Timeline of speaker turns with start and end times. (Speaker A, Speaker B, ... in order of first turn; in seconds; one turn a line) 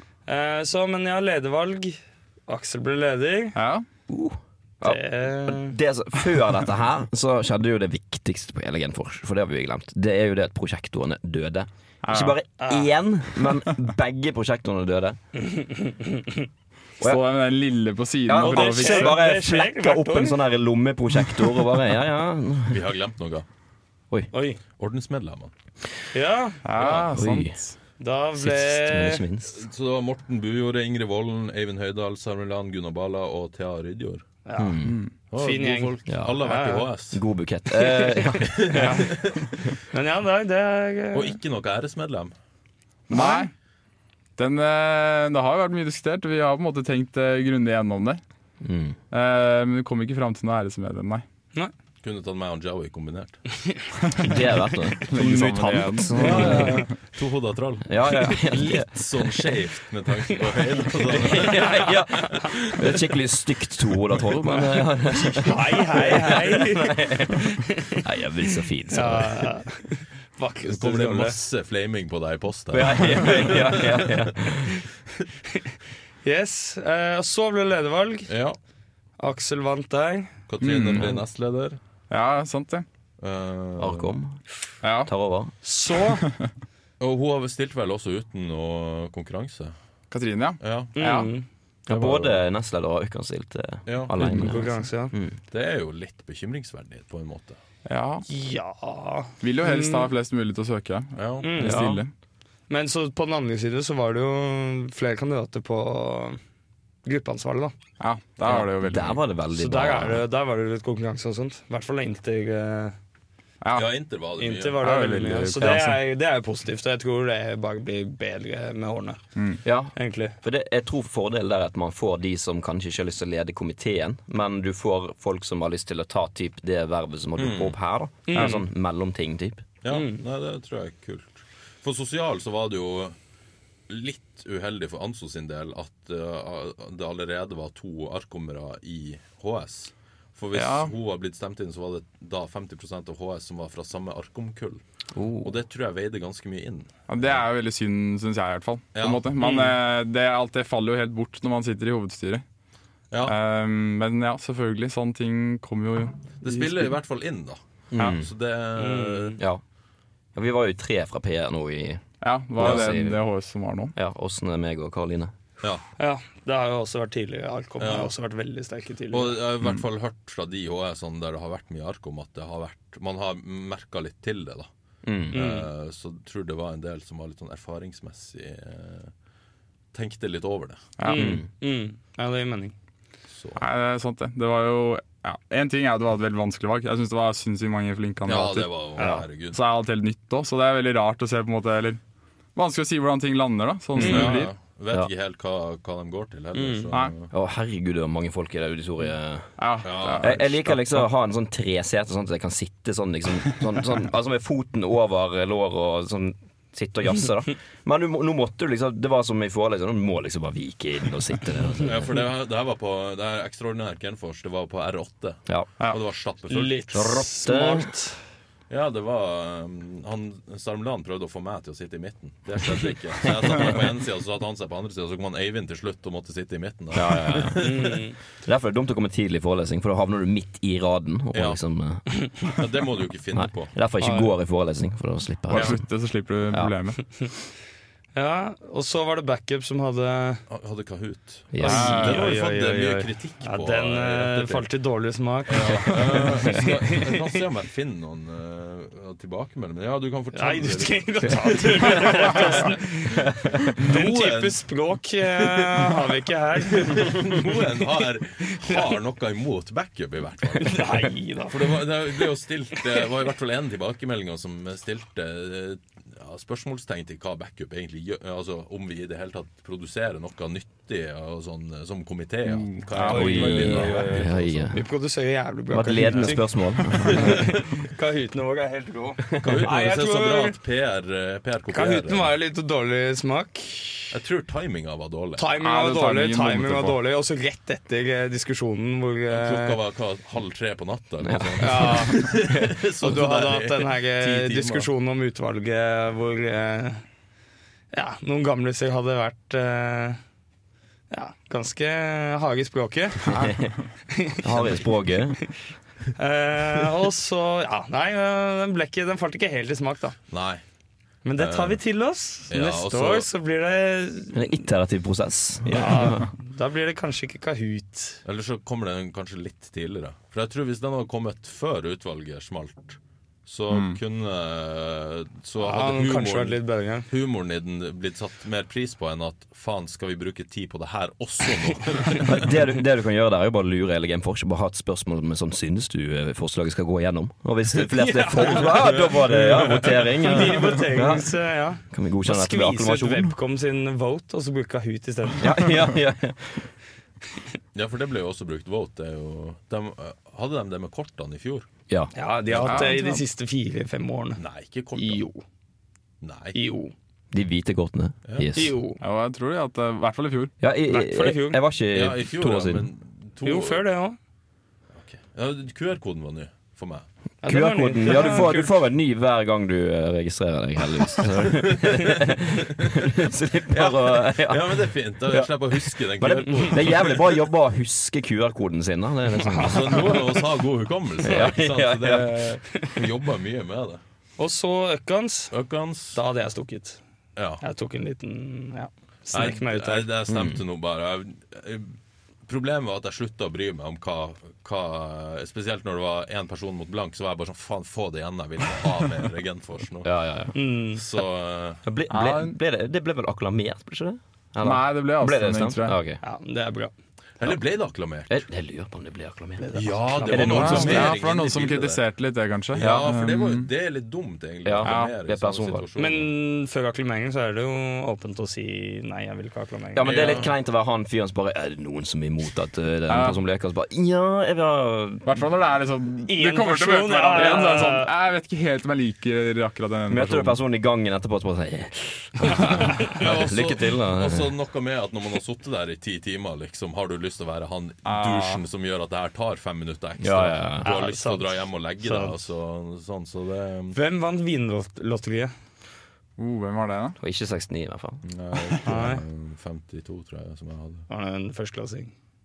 Speaker A: 0.3-3.6
Speaker B: 3.5-3.9
Speaker C: 4.1-15.2
Speaker A: 4.8-5.7
Speaker B: 12.0-12.3
Speaker A: 12.6-12.9
Speaker A: 15.4-16.2
Speaker B: 17.0-19.2
Speaker C: 18.2-22.8
Speaker A: 18.4-20.4
Speaker D: 22.7-23.4
Speaker A: 24.3-24.6
Speaker D: 24.8-25.5
Speaker A: 26.1-26.6
Speaker B: 26.6-27.7
Speaker D: 26.8-27.1
Speaker C: 27.1-27.6
Speaker A: 28.0-29.2
Speaker C: 28.4-29.6
Speaker D: 29.5-34.2
Speaker A: 34.5-34.7
Speaker C: 34.6-35.0
Speaker B: 34.8-35.1
Speaker D: 35.3-37.2
Speaker A: 35.4-36.9
Speaker C: 36.1-36.4
Speaker C: 37.1-38.9
Speaker A: 37.8-38.2
Speaker D: 38.6-39.4
Speaker B: 38.7-39.3
Speaker A: 39.9-41.4
Speaker D: 41.1-42.3
Speaker B: 43.1-43.5
Speaker A: 43.1-43.5
Speaker B: 44.4-48.2
Speaker C: 48.6-49.0
Speaker B: 49.1-51.2
Speaker D: 52.0-53.4
Speaker C: 54.2-56.8
Speaker B: 55.0-56.9
Speaker D: 56.1-62.7
Speaker C: 57.9-59.0
Speaker C: 61.1-67.4
Speaker A: 61.4-61.7
Speaker A: 65.3-67.8
Speaker C: 68.0-69.5
Speaker A: 68.9-71.3
Speaker D: 70.6-73.7
Speaker C: 72.7-74.7
Speaker A: 76.2-78.3
Speaker D: 78.3-78.6
Speaker A: 79.2-80.3
Speaker D: 80.5-81.8
Speaker B: 80.6-81.2
Speaker B: 82.1-82.8
Speaker D: 83.2-84.1
Speaker C: 83.8-84.4
Speaker B: 84.8-85.1
Speaker C: 85.0-85.5
Speaker A: 85.6-86.2
Speaker D: 87.0-89.7
Speaker B: 90.1-91.3
Speaker D: 90.6-90.9
Speaker A: 91.0-91.5
Speaker C: 91.9-95.4
Speaker D: 91.9-92.4
Speaker D: 93.8-94.1
Speaker A: 94.2-95.1
Speaker D: 95.5-97.6
Speaker B: 97.8-98.2
Speaker A: 98.3-100.1
Speaker B: 99.4-102.1
Speaker D: 101.2-101.5
Speaker A: 101.4-102.0
Speaker C: 101.6-102.0
Speaker A: 102.7-106.4
Speaker A: 107.0-107.7
Speaker B: 108.0-109.2
Speaker C: 108.4-110.2
Speaker A: 109.5-113.0
Speaker B: 113.6-113.9
Speaker D: 113.7-114.8
Speaker A: 114.4-119.2
Speaker B: 114.8-116.0
Speaker C: 119.6-129.6
Speaker A: 119.9-120.3
Speaker D: 127.4-127.8
Speaker A: 128.3-128.6
Speaker B: 128.3-128.6
Speaker D: 129.8-133.2
Speaker A: 129.9-130.2
Speaker D: 133.9-144.8
Speaker B: 140.5-140.9
Speaker C: 145.1-145.5
Speaker D: 145.4-147.4
Speaker B: 147.1-152.4
Speaker D: 148.9-149.2
Speaker A: 149.4-149.7
Speaker D: 153.1-153.3
Speaker B: 153.2-156.9
Speaker D: 156.4-159.4
Speaker C: 157.9-158.3
Speaker A: 158.8-159.4
Speaker C: 160.3-162.0
Speaker B: 162.2-163.9
Speaker C: 162.6-163.2
Speaker C: 163.9-165.3
Speaker A: 166.0-169.4
Speaker D: 167.8-168.1
Speaker D: 169.1-174.7
Speaker C: 175.0-175.4
Speaker D: 175.3-179.1
Speaker A: 175.3-175.7
Speaker D: 179.9-180.9
Speaker B: 181.0-181.4
Speaker A: 181.0-182.7
Speaker C: 181.1-181.5
Speaker D: 183.3-183.6
Speaker B: 183.6-192.0
Speaker D: 188.2-189.6
Speaker A: 189.0-189.2
Speaker B: 192.5-194.5
Speaker D: 194.0-197.3
Speaker A: 194.0-194.4
Speaker A: 196.5-196.9
Speaker C: 197.3-199.5
Speaker B: 199.6-201.0
Speaker D: 199.8-200.5
Speaker C: 200.2-212.2
Speaker D: 211.8-216.9
Speaker A: 216.5-218.2
Speaker C: 216.9-217.9
Speaker D: 218.7-228.0
Speaker C: 226.9-227.7
Speaker A: 227.6-228.2
Speaker C: 228.4-232.0
Speaker D: 231.3-231.6
Speaker D: 232.5-233.7
Speaker C: 233.3-235.8
Speaker A: 234.0-234.3
Speaker B: 235.5-237.0
Speaker A: 238.1-240.4
Speaker D: 240.5-244.7
Speaker C: 241.5-242.1
Speaker A: 241.6-247.3
Speaker B: 241.6-242.2
Speaker D: 245.5-252.9
Speaker A: 250.3-257.5
Speaker D: 253.8-274.7
Speaker A: 260.6-261.8
Speaker B: 272.5-274.1
Speaker C: 273.1-274.8
Speaker A: 273.1-274.2
Speaker A: 274.7-280.6
Speaker C: 275.7-277.4
Speaker D: 277.1-277.4
Speaker D: 279.4-282.3
Speaker A: 281.7-284.1
Speaker D: 284.1-285.5
Speaker A: 285.4-289.8
Speaker B: 285.6-287.0
Speaker D: 289.3-294.9
Speaker C: 291.2-292.0
Speaker A: 291.6-292.4
Speaker A: 293.0-297.0
Speaker A: 297.9-300.2
Speaker A: 301.1-303.5
Speaker C: 303.4-303.7
Speaker A: 304.1-305.0
Speaker C: 304.4-305.4
Speaker A: 306.1-310.2
Speaker D: 310.3-310.6
Speaker A: 311.2-314.4
Speaker D: 311.4-311.8
Speaker D: 312.5-313.3
Speaker C: 314.3-316.3
Speaker A: 315.6-318.2
Speaker D: 318.2-332.4
Speaker B: 323.7-324.0
Speaker A: 325.6-327.1
Speaker C: 332.2-341.3
Speaker A: 337.9-345.7
Speaker D: 339.4-340.0
Speaker C: 341.9-343.3
Speaker C: 345.4-346.7
Speaker D: 347.7-351.7
Speaker A: 352.1-354.4
Speaker D: 352.5-353.0
Speaker B: 352.6-353.2
Speaker D: 354.4-355.2
Speaker A: 354.9-355.4
Speaker D: 356.2-356.6
Speaker A: 356.5-356.9
Speaker C: 357.3-358.7
Speaker A: 358.5-359.0
Speaker B: 359.0-360.5
Speaker C: 360.6-362.9
Speaker A: 360.9-361.6
Speaker D: 361.9-363.9
Speaker A: 363.4-364.2
Speaker D: 365.0-367.1
Speaker A: 367.4-368.8
Speaker C: 367.4-380.1
Speaker D: 371.4-372.1
Speaker D: 372.8-373.0
Speaker D: 373.7-377.4
Speaker D: 379.6-384.0
Speaker C: 381.2-382.4
Speaker A: 384.4-385.5
Speaker D: 385.5-386.2
Speaker A: 386.1-387.0
Speaker D: 387.4-387.6
Speaker A: 387.6-390.1
Speaker D: 389.3-391.9
Speaker C: 390.3-390.6
Speaker D: 392.4-400.1
Speaker C: 400.0-400.5
Speaker A: 400.5-401.0
Speaker D: 400.9-401.8
Speaker C: 401.8-406.2
Speaker B: 402.1-402.5
Speaker B: 404.6-406.0
Speaker A: 406.2-406.9
Speaker D: 407.4-408.5
Speaker C: 408.3-411.1
Speaker A: 409.6-411.1
Speaker D: 409.7-412.0
Speaker B: 410.4-413.7
Speaker D: 412.7-416.3
Speaker C: 412.8-413.0
Speaker C: 414.6-415.9
Speaker B: 414.8-415.1
Speaker A: 416.0-420.1
Speaker C: 419.9-425.3
Speaker D: 420.0-420.5
Speaker B: 423.1-423.4
Speaker B: 425.2-430.6
Speaker A: 426.2-428.1
Speaker C: 430.1-434.5
Speaker D: 433.1-444.0
Speaker B: 438.0-438.6
Speaker C: 440.2-440.9
Speaker A: 440.8-442.3
Speaker A: 443.9-445.5
Speaker B: 446.4-447.2
Speaker C: 447.2-448.2
Speaker D: 448.2-451.1
Speaker A: 448.8-449.2
Speaker A: 451.1-452.1